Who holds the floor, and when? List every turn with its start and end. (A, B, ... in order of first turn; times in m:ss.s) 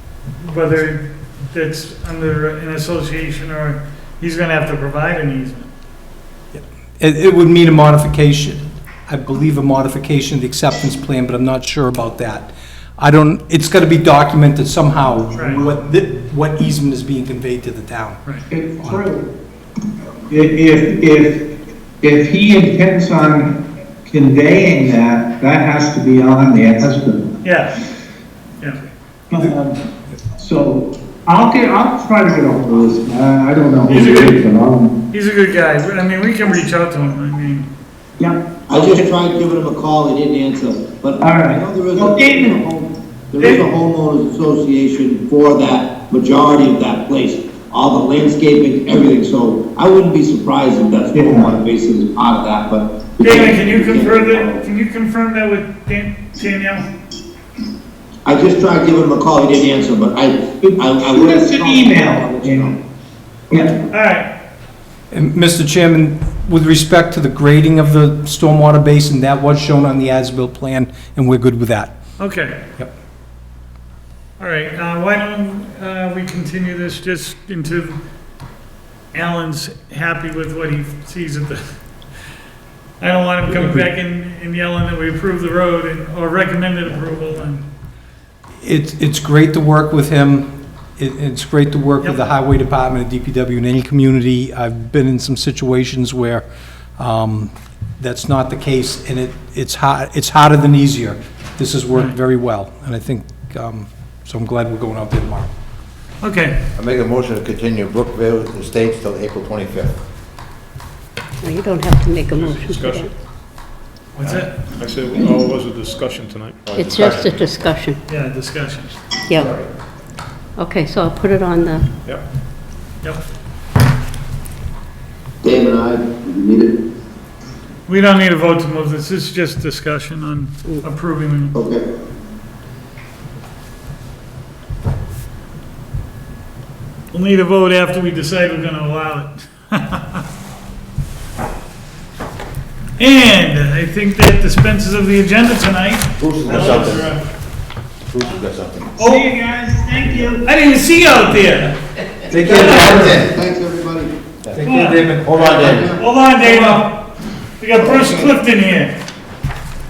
0:00.4-0:05.7 A
0:06.5-0:18.2 B
0:15.3-0:15.6 A
0:18.5-0:19.3 C
0:20.3-0:21.4 C
0:22.0-0:27.3 C
0:27.4-0:27.8 A
0:28.6-0:28.8 A
0:29.3-0:29.8 C
0:30.4-0:35.0 C
0:33.9-0:34.4 A
0:35.1-0:37.7 A
0:38.2-0:39.0 C
0:38.7-0:54.6 D
0:41.2-0:42.6 C
0:51.1-0:51.5 C
0:53.2-0:56.9 A
0:58.2-1:02.8 D
1:00.6-1:02.7 C
1:03.5-1:03.8 C
1:03.9-1:04.3 A
1:05.1-1:12.0 B
1:12.2-1:12.6 A
1:14.4-1:18.0 A
1:19.1-1:21.6 A
1:23.0-1:27.6 A
1:23.5-1:23.8 B
1:28.6-1:36.4 B
1:37.0-1:45.5 B
1:46.2-1:46.6 A
1:46.7-1:50.0 E
1:51.4-1:53.1 F
1:52.3-1:53.1 G
1:54.2-1:54.8 A
1:54.2-1:57.3 G
1:56.7-1:57.4 E
1:56.8-1:58.0 F
1:58.1-1:59.0 A
1:59.4-1:59.6 E
2:00.6-2:01.8 F
2:05.4-2:06.8 D
2:07.9-2:11.6 A
2:11.5-2:11.8 D
2:17.1-2:20.2 A
2:23.0-2:27.1 A
2:26.2-2:27.2 E
2:28.1-2:28.9 E
2:29.0-2:30.4 C
2:29.0-2:29.3 A
2:30.4-2:31.8 A
2:32.3-2:33.4 E
2:32.3-2:32.7 A
2:32.4-2:33.1 B
2:32.6-2:34.1 D
2:34.4-2:35.9 E
2:34.6-2:35.2 A
2:35.3-2:36.0 D
2:36.0-2:38.9 A
2:37.8-2:38.3 D